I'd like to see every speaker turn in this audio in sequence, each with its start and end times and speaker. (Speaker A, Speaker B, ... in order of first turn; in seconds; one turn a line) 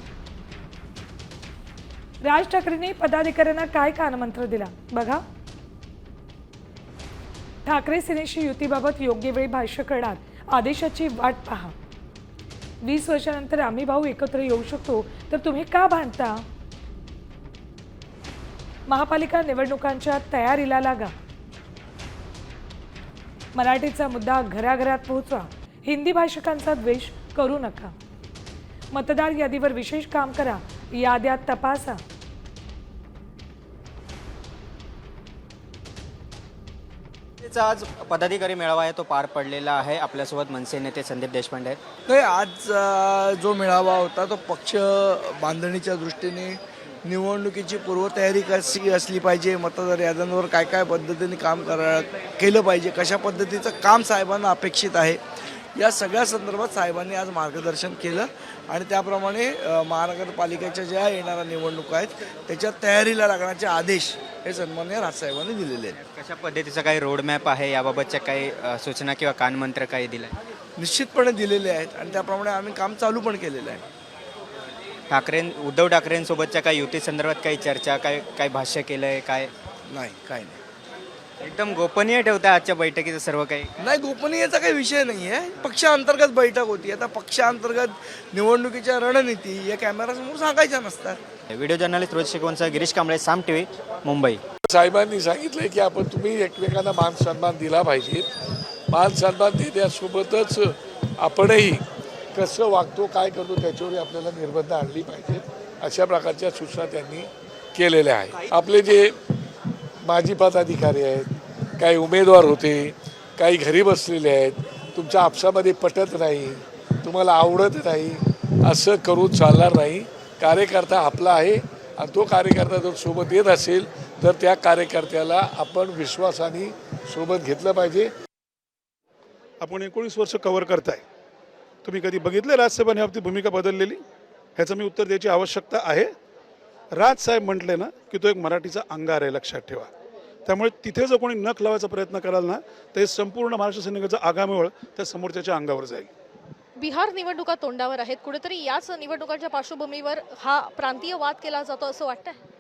Speaker A: 2.2-5.2
Speaker A: 7.6-11.7
Speaker A: 12.8-16.4
Speaker A: 18.9-21.1
Speaker A: 23.5-27.9
Speaker A: 28.9-32.0
Speaker B: 37.4-41.8
Speaker C: 42.1-55.2
Speaker C: 55.8-66.0
Speaker B: 66.1-70.3
Speaker C: 70.8-73.8
Speaker B: 75.1-79.5
Speaker C: 79.9-80.6
Speaker B: 81.4-83.7
Speaker C: 83.8-91.2
Speaker B: 91.5-94.4
Speaker D: 94.7-98.3
Speaker D: 98.9-109.2
Speaker D: 110.0-128.1
Speaker E: 129.6-131.0
Speaker E: 131.8-134.0
Speaker E: 134.6-136.1
Speaker E: 136.9-139.9
Speaker E: 140.5-146.1
Speaker F: 146.8-152.4